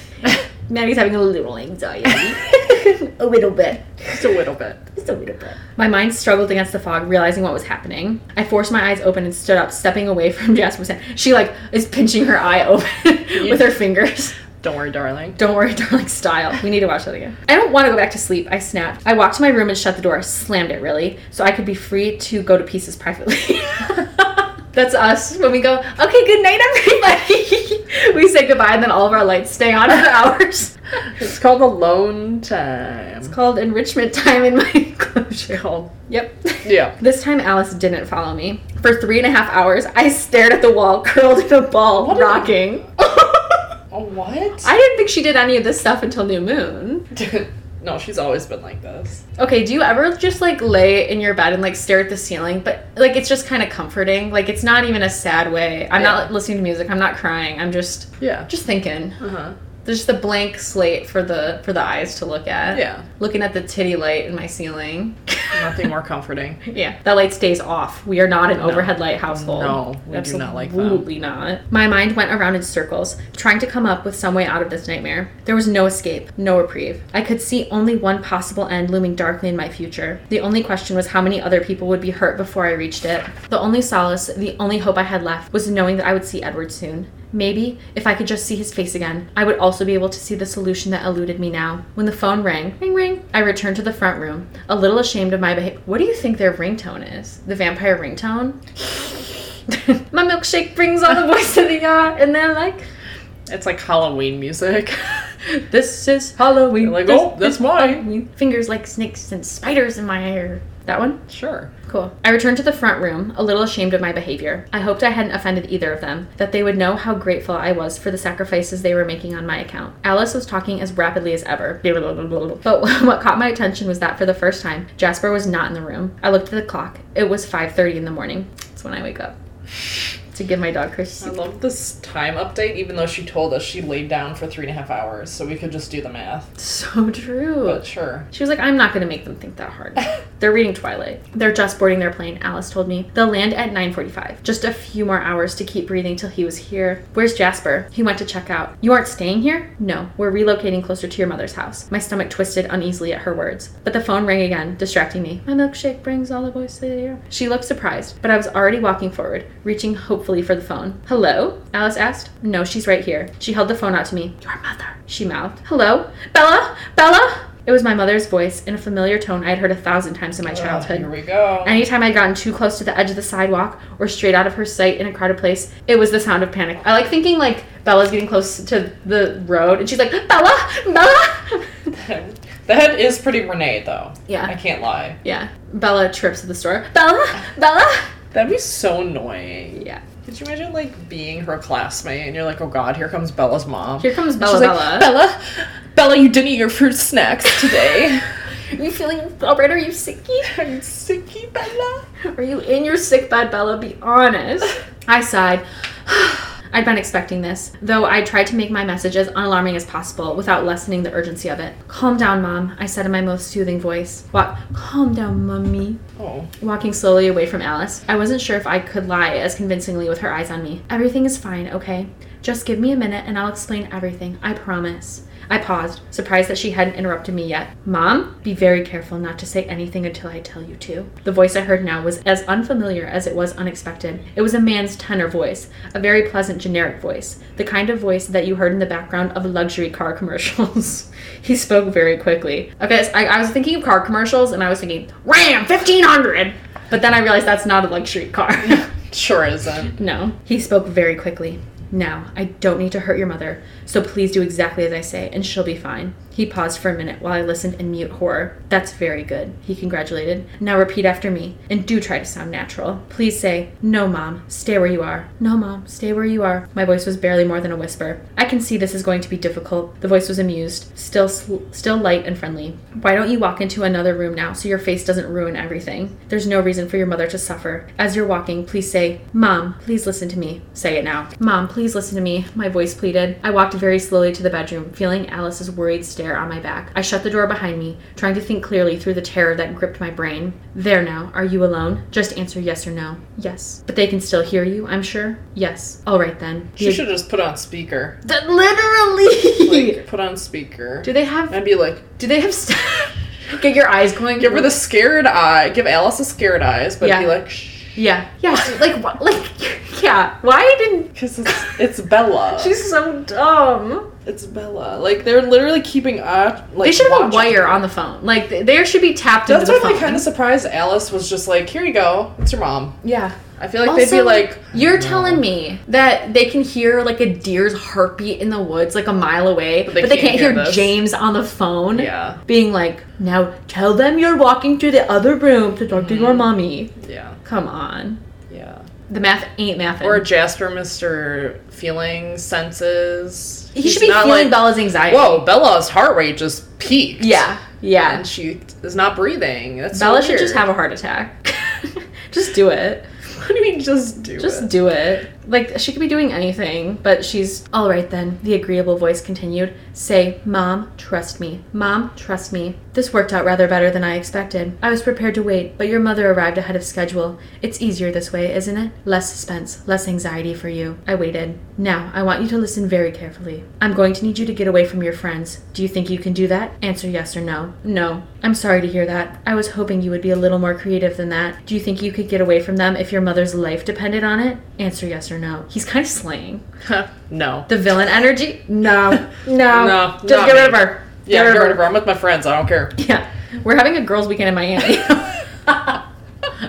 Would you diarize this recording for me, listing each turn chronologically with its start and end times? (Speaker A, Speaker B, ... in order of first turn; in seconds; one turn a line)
Speaker A: 0.7-3.9
Speaker B: 4.1-4.8
Speaker A: 5.0-14.4
Speaker B: 13.3-13.8
Speaker B: 14.6-15.4
Speaker A: 15.4-30.7
Speaker B: 31.2-33.3
Speaker A: 33.2-43.6
Speaker B: 35.5-35.9
Speaker B: 36.6-37.0
Speaker B: 42.0-42.5
Speaker B: 43.9-44.7
Speaker A: 44.6-47.1
Speaker B: 47.1-49.2
Speaker A: 49.4-59.2
Speaker B: 56.0-56.2
Speaker B: 58.2-58.5
Speaker B: 59.2-59.5
Speaker A: 59.9-65.5
Speaker B: 62.7-63.0
Speaker B: 65.5-66.6
Speaker A: 66.7-98.6
Speaker B: 68.6-71.0
Speaker A: 99.7-102.9
Speaker B: 103.5-105.2
Speaker A: 105.7-111.2
Speaker B: 106.8-108.0
Speaker B: 111.3-111.7
Speaker A: 111.9-129.3
Speaker A: 130.3-131.3
Speaker B: 131.2-136.5
Speaker A: 136.6-171.1
Speaker B: 137.7-138.3
Speaker B: 170.5-171.8
Speaker A: 171.6-181.7
Speaker B: 182.0-185.2
Speaker A: 184.3-184.5
Speaker A: 185.2-188.1
Speaker B: 188.3-198.2
Speaker A: 189.8-190.0
Speaker A: 194.0-195.1
Speaker A: 198.7-200.5
Speaker B: 200.5-202.0
Speaker A: 202.3-216.0
Speaker B: 216.2-216.5
Speaker A: 216.6-248.8
Speaker B: 248.7-250.0
Speaker A: 250.0-297.1
Speaker B: 296.8-298.2
Speaker A: 298.2-300.0
Speaker B: 299.5-302.1
Speaker A: 301.0-304.8
Speaker B: 304.4-308.0
Speaker A: 307.0-307.4
Speaker A: 307.9-311.6
Speaker B: 311.1-312.8
Speaker A: 312.6-314.1
Speaker B: 314.2-317.8
Speaker A: 316.8-320.3
Speaker B: 319.5-323.0
Speaker A: 323.0-336.9
Speaker B: 323.6-325.4
Speaker B: 329.9-331.0
Speaker B: 331.9-332.4
Speaker B: 335.9-337.4
Speaker A: 337.4-338.2
Speaker B: 338.5-338.8
Speaker A: 339.1-340.2
Speaker B: 340.0-347.4
Speaker A: 343.8-345.5
Speaker A: 347.2-348.2
Speaker B: 348.1-350.6
Speaker A: 349.9-351.5
Speaker A: 352.3-353.1
Speaker B: 353.4-354.7
Speaker A: 354.4-386.6
Speaker B: 386.9-387.7
Speaker A: 387.7-391.9
Speaker B: 389.6-392.9
Speaker A: 393.0-396.0